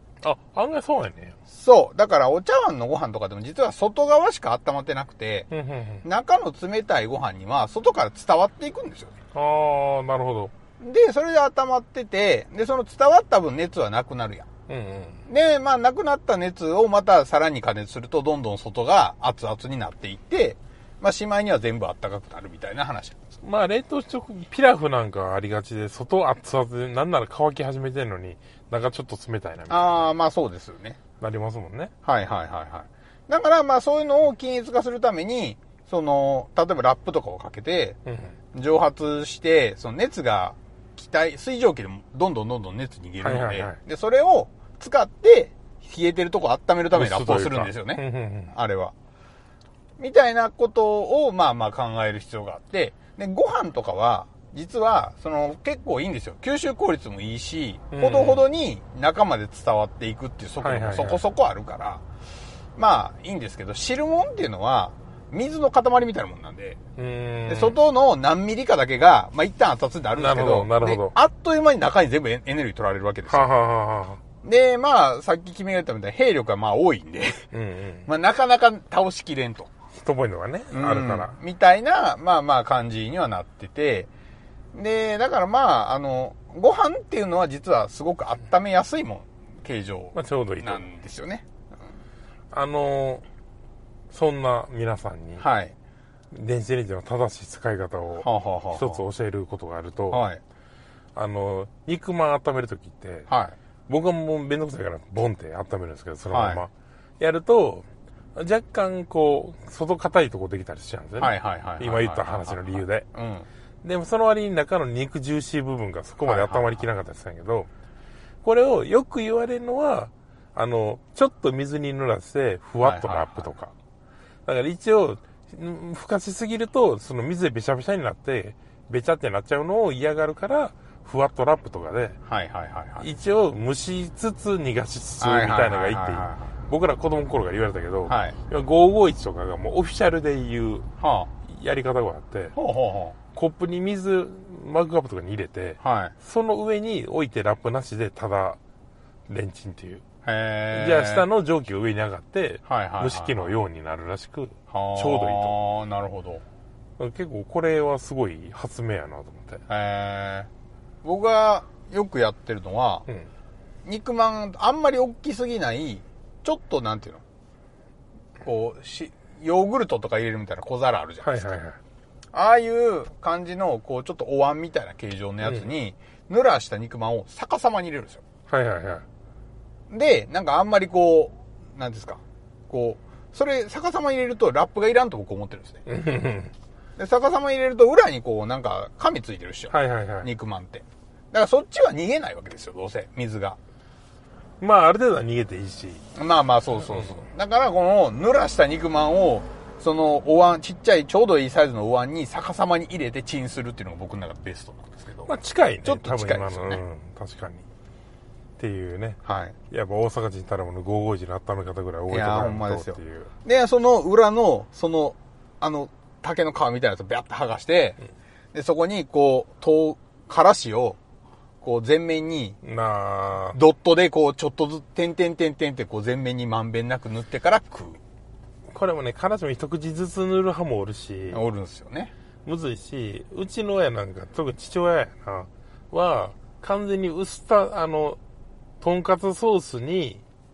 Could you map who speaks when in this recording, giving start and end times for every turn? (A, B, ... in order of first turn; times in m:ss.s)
0:00.2-0:01.4 A
0:01.5-0:05.5 B
0:05.5-0:06.0 A
0:06.0-0:09.2 B
0:09.3-0:10.5 A
0:10.8-0:14.5 B
0:14.7-0:15.2 A
0:15.3-0:23.4 B
0:23.4-0:30.1 A
0:29.7-0:31.0 B
0:31.2-0:31.9 A
0:32.0-0:38.0 B
0:38.1-0:38.4 A
0:38.5-0:48.9 B
0:43.2-0:43.8 A
0:46.9-0:48.5 A
0:50.0-1:02.0 B
0:57.9-0:58.4 A
1:00.6-1:01.2 A
1:02.8-1:06.8 B
1:07.0-1:07.8 A
1:07.5-1:13.5 B
1:10.2-1:11.2 A
1:13.3-1:14.2 A
1:14.4-1:17.5 B
1:17.5-1:18.1 A
1:18.1-1:19.7 B
1:20.0-1:21.3 A
1:20.7-1:24.1 B
1:24.7-1:31.5 B
1:30.1-1:30.8 A
1:32.5-1:33.2 A
1:34.1-1:35.4 A
1:35.4-1:35.8 B
1:36.3-1:40.2 A
1:38.2-1:39.0 B
1:40.1-1:40.4 B
1:41.2-1:43.3 A
1:43.3-1:43.6 B
1:43.9-1:53.1 A
1:46.3-1:46.6 B
1:51.2-1:53.5 B
1:53.8-1:57.7 A
1:56.2-1:56.8 B
1:58.4-2:03.7 A
2:02.8-2:03.6 B
2:04.5-2:12.2 A
2:12.3-2:13.1 B
2:13.0-2:20.9 A
2:15.2-2:16.6 B
2:18.1-2:18.4 B
2:21.0-2:21.3 B
2:21.5-2:22.6 A
2:22.5-2:23.2 B
2:23.3-2:28.6 A
2:25.8-2:26.2 B
2:29.3-2:30.0 A
2:30.2-2:31.2 B
2:30.7-2:35.6 A
2:32.7-2:33.6 B
2:34.7-2:36.4 B
2:37.0-2:39.6 A
2:39.7-2:40.5 B
2:41.0-2:43.1 B
2:43.8-2:47.2 B
2:48.4-2:51.6 B
2:51.2-2:51.8 A
2:52.3-2:58.2 B
2:55.4-2:55.7 A
2:58.5-2:59.1 A
2:59.9-3:05.8 B
3:05.9-3:06.5 A
3:07.0-3:13.6 B
3:09.7-3:10.3 A
3:14.6-3:16.0 A
3:16.2-3:25.3 B
3:25.3-3:27.6 A
3:25.8-3:26.8 B
3:28.6-3:33.3 A
3:29.2-3:29.6 B
3:32.1-3:38.0 B
3:38.5-3:41.0 B
3:41.6-3:42.6 B
3:42.6-3:43.6 A
3:43.5-3:48.0 B
3:48.7-3:51.4 A
3:51.3-3:52.1 B
3:52.4-3:58.2 A
3:58.8-4:00.2 A